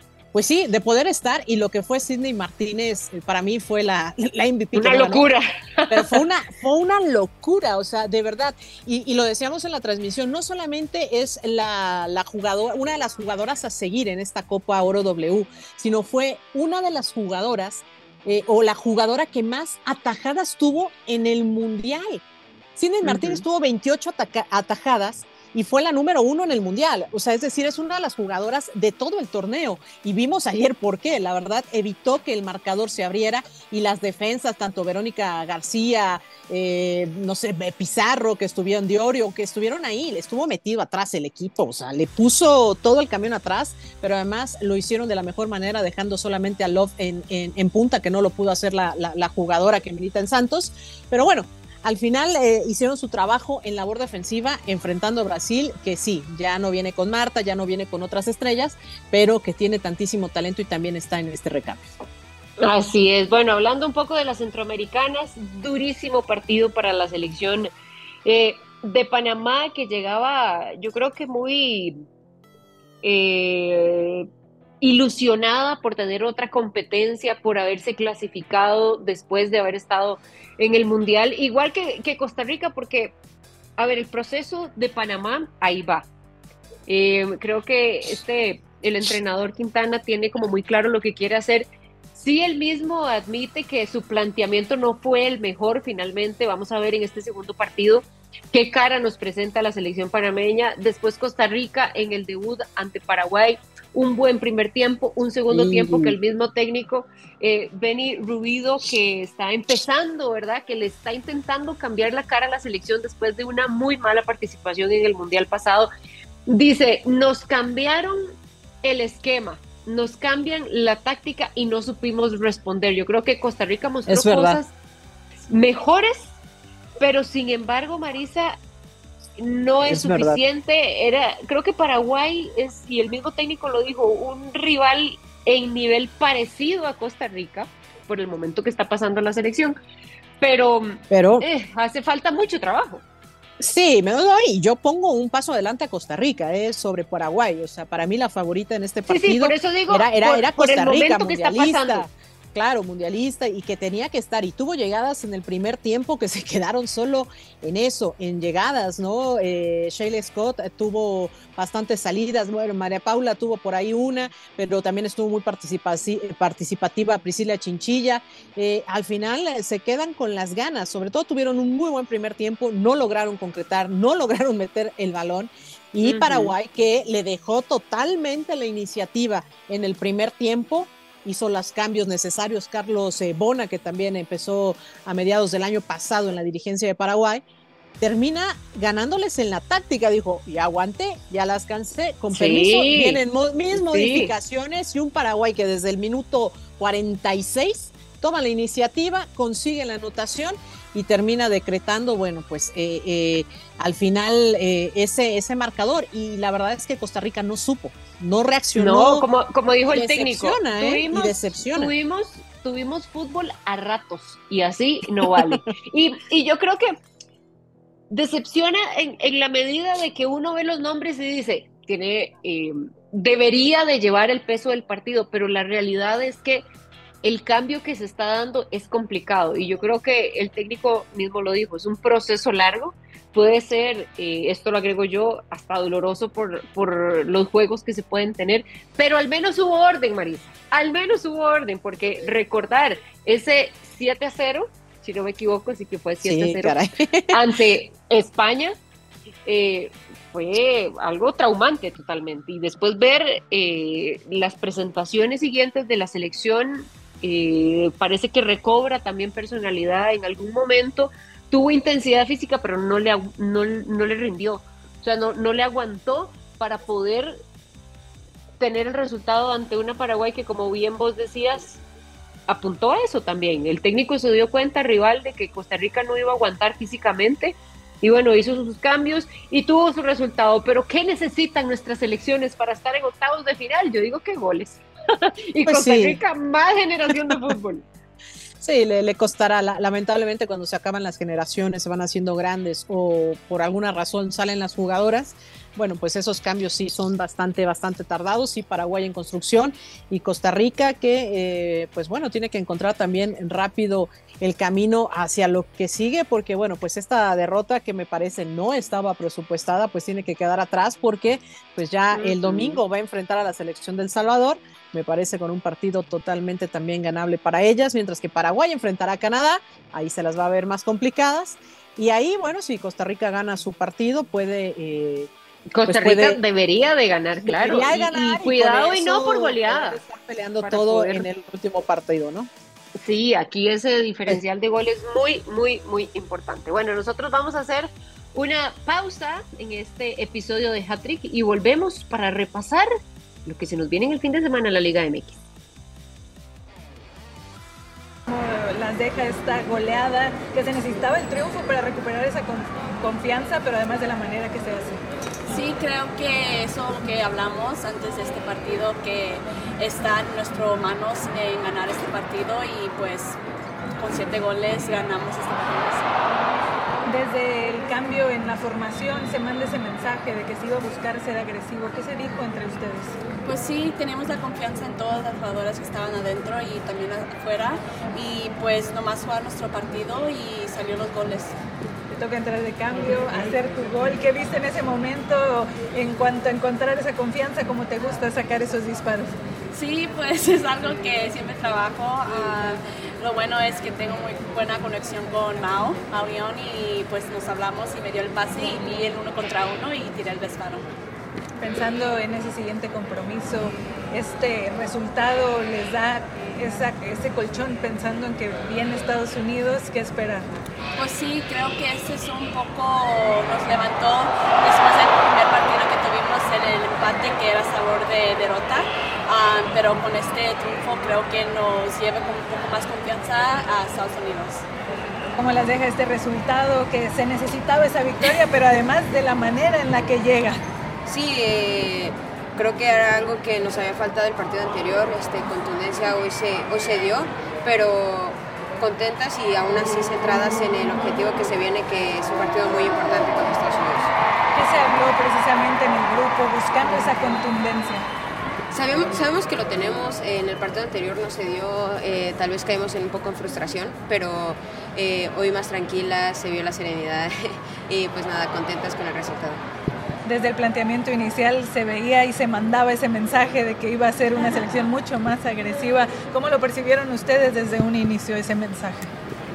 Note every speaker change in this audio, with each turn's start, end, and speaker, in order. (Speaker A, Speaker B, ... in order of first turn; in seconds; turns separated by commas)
Speaker A: 0.3-5.3, Speaker B: 4.7-6.2, Speaker A: 5.9-22.2, Speaker A: 22.8-61.9, Speaker B: 23.0-23.4, Speaker B: 62.6-67.7, Speaker B: 68.2-72.0, Speaker B: 73.0-74.3, Speaker B: 74.8-83.1, Speaker B: 83.8-86.1, Speaker B: 86.9-115.9, Speaker A: 105.5-106.1, Speaker B: 116.5-124.7, Speaker A: 124.1-124.6, Speaker B: 125.5-126.3, Speaker B: 127.0-128.6, Speaker B: 129.4-139.8, Speaker A: 129.8-130.4, Speaker B: 140.4-143.0, Speaker A: 141.1-141.4, Speaker A: 143.6-187.4, Speaker B: 149.1-152.1, Speaker B: 176.0-176.5, Speaker A: 188.0-209.3, Speaker B: 192.3-193.2, Speaker B: 193.7-194.3, Speaker B: 208.8-217.0, Speaker A: 209.9-211.9, Speaker A: 215.2-215.6, Speaker B: 218.1-226.7, Speaker B: 227.2-246.7, Speaker A: 246.2-247.4, Speaker B: 247.3-248.8, Speaker B: 249.4-267.4, Speaker B: 268.6-271.8, Speaker B: 272.5-287.9, Speaker A: 285.6-286.2, Speaker A: 287.1-287.4, Speaker A: 288.6-325.3, Speaker B: 312.1-312.8, Speaker B: 325.7-330.0, Speaker A: 325.9-326.4, Speaker A: 327.4-332.5, Speaker B: 330.6-331.3, Speaker B: 333.0-342.9, Speaker B: 343.4-345.4, Speaker C: 348.3-355.0, Speaker D: 355.5-363.4, Speaker D: 364.0-366.1, Speaker C: 367.1-373.1, Speaker D: 373.4-381.6, Speaker C: 382.1-389.3, Speaker D: 389.7-400.9, Speaker C: 401.6-410.5, Speaker D: 411.0-424.6, Speaker C: 425.4-430.6, Speaker E: 431.1-444.1, Speaker C: 444.5-448.1, Speaker E: 448.7-459.6, Speaker C: 460.2-469.1